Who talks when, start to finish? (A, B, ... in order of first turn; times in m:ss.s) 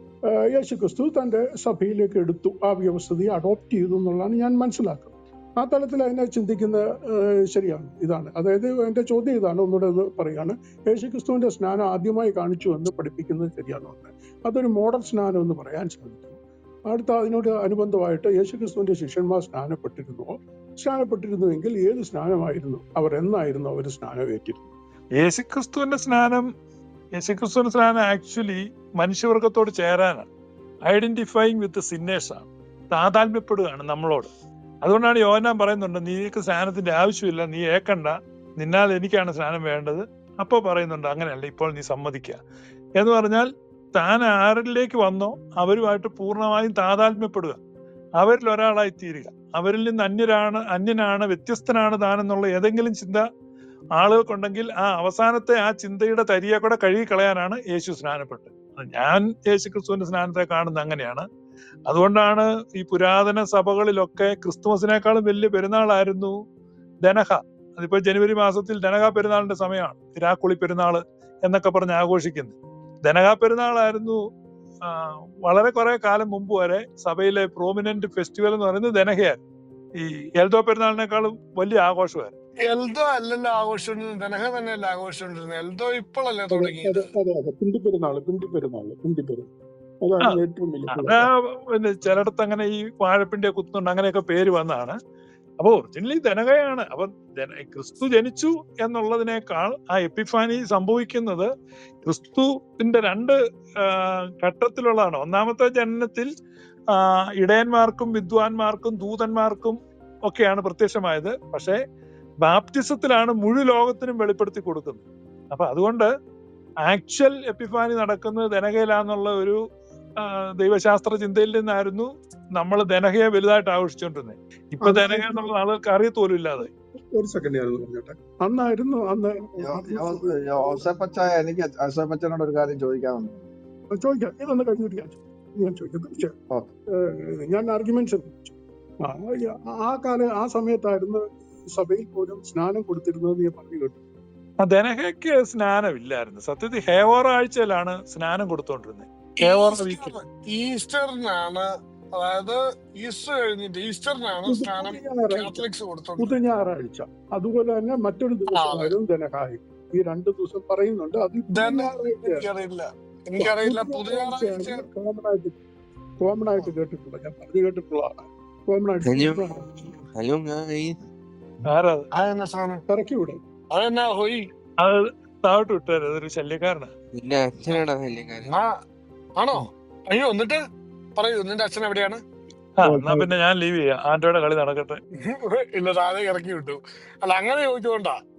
0:00.3-0:24.7 A
0:25.2-0:26.4 B
0:27.2-0:30.3 B
0:30.9-0:34.3 B
0:34.8-0:42.4 B
0:43.0-0:47.6 B
0:48.2-0:53.2 B
0:54.0-1:01.2 B
1:01.9-1:06.3 B
1:07.0-1:14.2 B
1:14.8-1:19.4 B
1:20.0-1:22.3 B
1:22.7-1:27.1 C
1:26.5-1:29.5 A
1:30.0-1:31.3 A
1:30.9-1:35.0 B
1:35.6-1:41.5 B
1:42.0-1:46.3 B
1:47.0-1:51.8 B
1:52.4-1:56.1 B
1:56.8-1:59.6 B
2:00.2-2:06.7 B
2:04.8-2:05.5 A
2:07.1-2:10.9 A
2:09.6-2:13.4 D
2:13.9-2:16.3 A
2:16.9-2:24.0 A
2:24.6-2:30.1 B
2:29.4-2:31.6 C
2:32.2-2:36.4 C
2:34.4-2:35.6 A
2:36.2-2:42.5 A
2:38.5-2:38.9 C
2:41.5-2:44.8 C
2:43.4-2:45.6 A
2:46.2-2:49.7 A
2:49.0-2:51.0 E
2:51.6-2:52.1 B
2:52.2-2:52.8 C
2:52.9-2:53.4 A
2:53.7-2:54.4 C
2:54.8-2:56.9 B
2:57.1-2:58.5 E
2:58.4-2:58.7 C
2:59.4-3:00.6 C
3:01.2-3:02.2 C
3:02.8-3:05.0 B
3:02.8-3:03.3 A
3:05.2-3:08.1 C